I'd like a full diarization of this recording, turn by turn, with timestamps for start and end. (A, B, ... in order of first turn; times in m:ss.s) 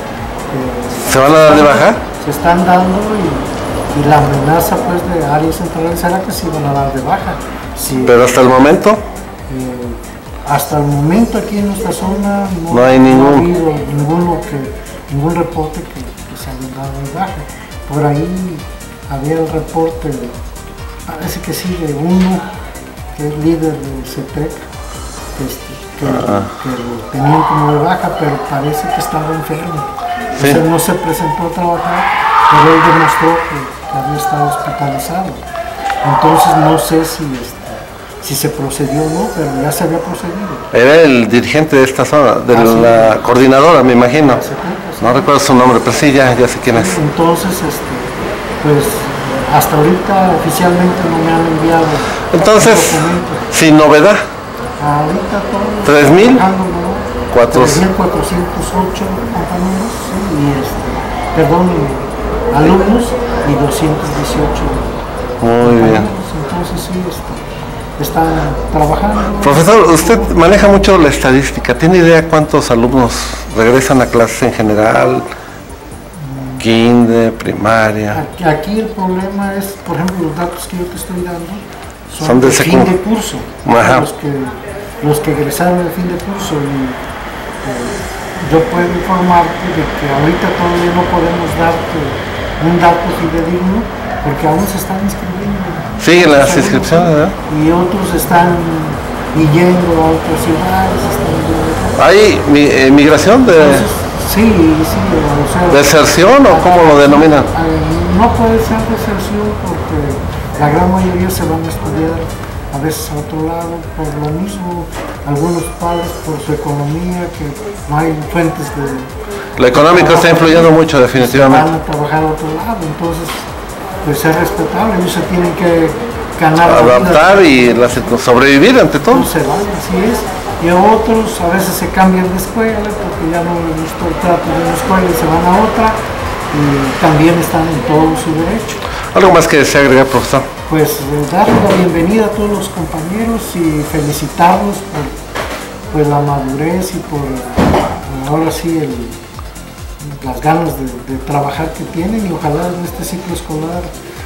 0:00.5-0:08.2 A
0:01.0-0:02.0 B
0:08.1-0:09.0 B
0:09.5-0:20.3 A
0:12.7-0:13.4 B
0:21.1-0:22.5 A
0:23.2-0:24.6 A
0:25.4-0:35.4 A
0:26.0-0:26.5 B
0:30.4-0:30.6 B
0:36.0-0:40.7 A
0:40.7-0:44.4 B
0:42.5-0:43.2 A
0:44.1-0:45.3 A
0:45.0-0:47.0 B
0:46.7-0:53.5 A
0:52.3-0:54.2 B
0:54.8-1:05.0 A
0:55.9-0:56.4 B
0:57.3-0:57.8 B
1:05.4-1:06.1 B
1:05.6-1:07.5 A
1:08.0-1:10.4 A
1:09.4-1:15.2 B
1:16.2-1:16.6 A
1:16.6-1:18.2 B
1:18.1-1:27.0 A
1:22.2-1:22.9 B
1:23.6-1:24.0 B
1:27.6-1:42.0 A
1:36.0-1:37.4 B
1:42.0-1:43.9 B
1:43.5-1:59.1 A
1:45.7-1:47.5 B
1:59.6-2:01.7 B
1:59.7-2:03.5 A
2:04.0-2:07.7 A
2:06.6-2:09.3 B
2:09.1-2:16.0 A
2:16.5-2:18.8 A
2:19.1-2:20.5 B
2:20.7-2:25.2 A
2:25.9-2:29.2 A
2:30.0-2:33.9 A